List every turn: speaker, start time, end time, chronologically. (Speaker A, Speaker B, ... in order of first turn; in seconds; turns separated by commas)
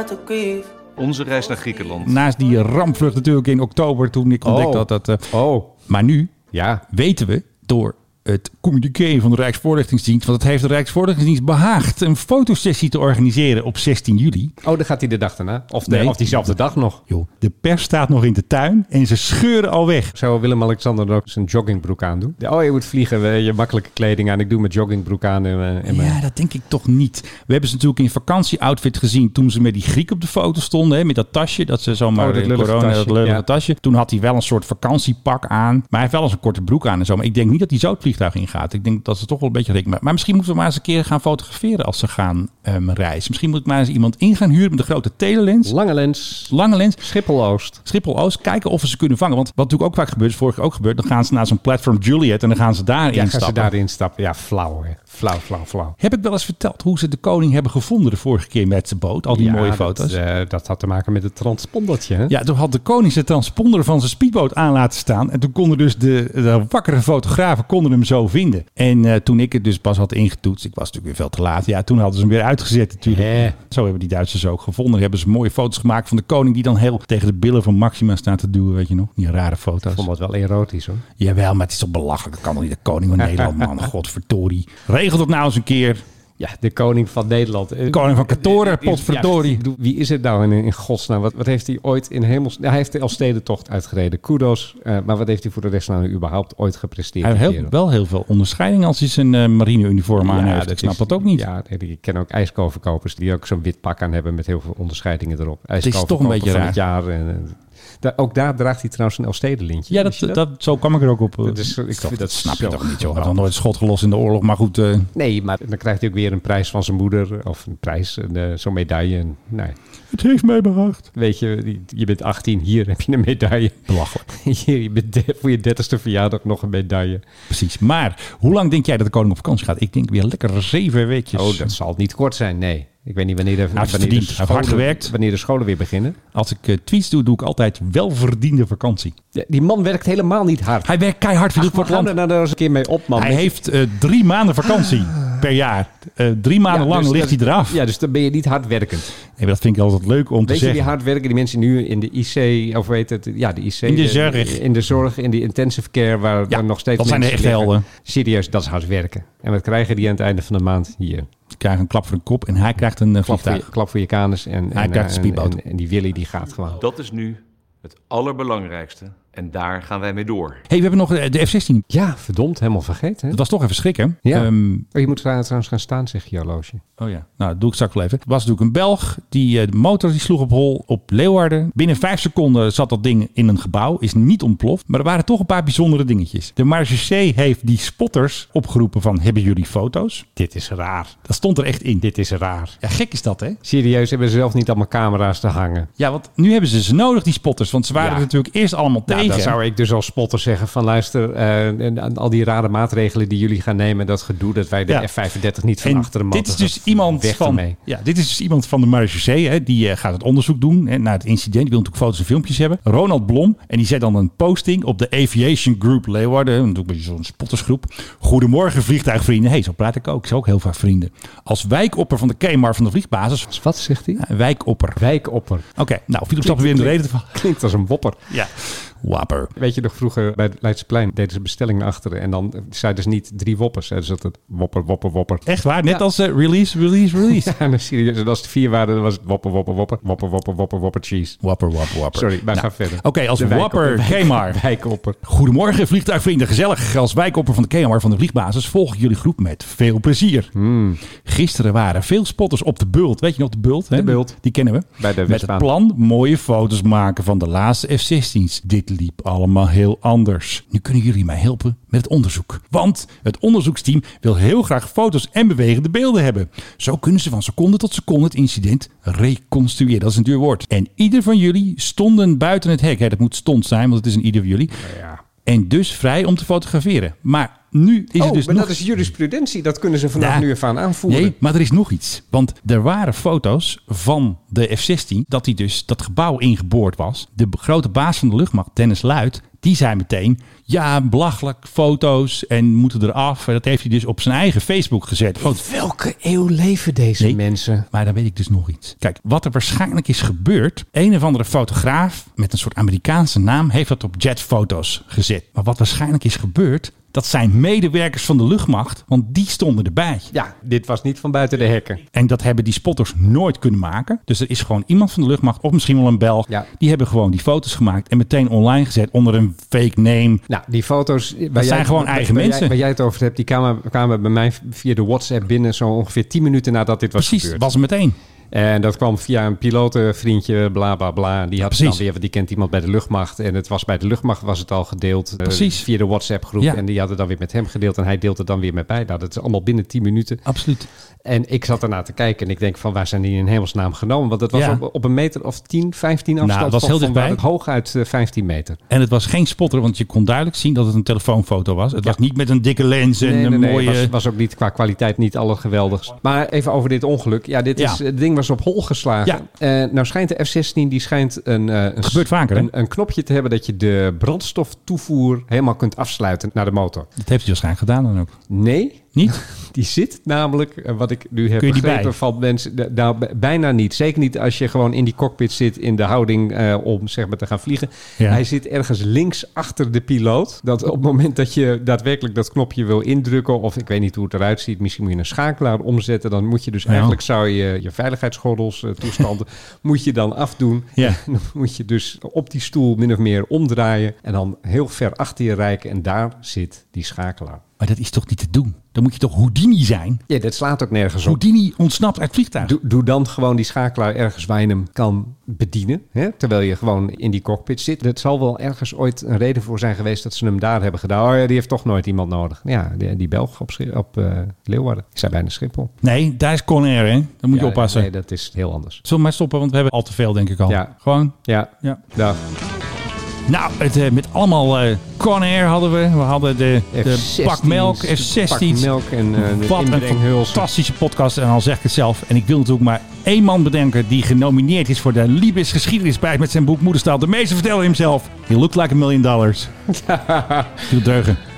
Speaker A: 0.9-2.2, Speaker B: 2.0-6.3, Speaker C: 4.4-5.7, Speaker C: 6.5-6.8, Speaker B: 6.9-14.5, Speaker C: 14.6-17.0, Speaker B: 15.8-16.5, Speaker B: 17.1-20.1, Speaker C: 20.1-26.2, Speaker B: 25.9-45.7, Speaker C: 32.1-33.4, Speaker C: 45.6-47.8, Speaker B: 46.5-47.0, Speaker B: 47.8-53.7, Speaker C: 53.1-56.0, Speaker B: 56.0-60.2, Speaker C: 59.3-62.3, Speaker B: 62.3-80.1, Speaker C: 73.0-73.5, Speaker C: 79.9-81.0, Speaker B: 81.2-86.0, Speaker C: 83.2-83.6, Speaker C: 86.4-97.7, Speaker B: 87.9-89.6, Speaker B: 97.2-101.5, Speaker C: 100.2-110.4, Speaker B: 105.8-106.8, Speaker B: 109.9-115.1, Speaker C: 111.4-113.5, Speaker C: 115.1-119.8, Speaker B: 120.1-121.0, Speaker C: 121.1-127.2, Speaker B: 123.9-124.2, Speaker B: 127.5-131.7, Speaker C: 131.3-136.2, Speaker B: 133.7-135.1, Speaker B: 136.3-139.1, Speaker C: 139.3-140.9, Speaker B: 140.8-142.1, Speaker C: 141.5-143.5, Speaker B: 143.1-147.8, Speaker C: 146.7-149.1, Speaker B: 149.3-150.9, Speaker C: 150.4-161.3, Speaker B: 153.8-154.6, Speaker B: 156.5-157.8, Speaker B: 161.6-163.7, Speaker C: 163.2-166.8, Speaker B: 164.7-165.6, Speaker A: 166.8-170.6, Speaker B: 170.7-171.8, Speaker C: 171.9-173.4, Speaker B: 173.3-174.8, Speaker C: 174.2-176.8, Speaker B: 177.0-190.2, Speaker C: 190.3-191.2, Speaker B: 191.2-192.0, Speaker C: 192.0-192.8, Speaker B: 192.8-193.6, Speaker C: 193.6-195.9, Speaker B: 196.0-199.6, Speaker C: 197.9-198.3, Speaker C: 199.1-207.8, Speaker B: 205.8-223.5, Speaker C: 223.5-224.2, Speaker B: 224.2-225.0, Speaker C: 224.9-225.7, Speaker B: 225.8-227.4, Speaker C: 226.4-228.3, Speaker B: 228.3-229.5, Speaker C: 229.6-236.0, Speaker B: 235.4-237.5, Speaker C: 237.2-241.4, Speaker B: 241.4-244.6, Speaker C: 242.1-245.2, Speaker B: 245.2-250.5, Speaker C: 250.5-251.0, Speaker B: 251.0-274.8, Speaker C: 253.9-254.3, Speaker C: 255.0-255.7, Speaker C: 274.8-275.2, Speaker B: 275.4-278.8, Speaker C: 278.2-281.3, Speaker B: 280.2-280.5, Speaker B: 281.1-295.6, Speaker C: 295.4-297.9, Speaker B: 297.9-310.3, Speaker C: 310.3-312.0, Speaker B: 312.1-320.4, Speaker C: 320.5-327.7, Speaker B: 321.5-322.7, Speaker B: 327.1-328.1, Speaker C: 328.5-340.4, Speaker B: 331.6-332.0, Speaker B: 335.4-335.9, Speaker B: 340.4-340.9, Speaker C: 341.2-348.8, Speaker B: 344.5-344.8, Speaker B: 346.4-347.4, Speaker B: 348.9-354.1, Speaker C: 353.2-367.1, Speaker B: 362.0-362.7, Speaker B: 367.2-368.3, Speaker C: 368.5-397.6, Speaker B: 371.6-372.1, Speaker B: 386.9-387.2, Speaker B: 397.8-400.2, Speaker C: 400.3-401.4, Speaker B: 401.2-402.8, Speaker C: 402.6-415.9, Speaker B: 416.0-418.1, Speaker C: 417.5-419.0, Speaker B: 419.1-422.0, Speaker C: 420.7-420.9, Speaker C: 421.4-422.4, Speaker B: 423.5-439.7, Speaker C: 426.9-430.7, Speaker C: 439.9-440.9, Speaker B: 440.9-441.4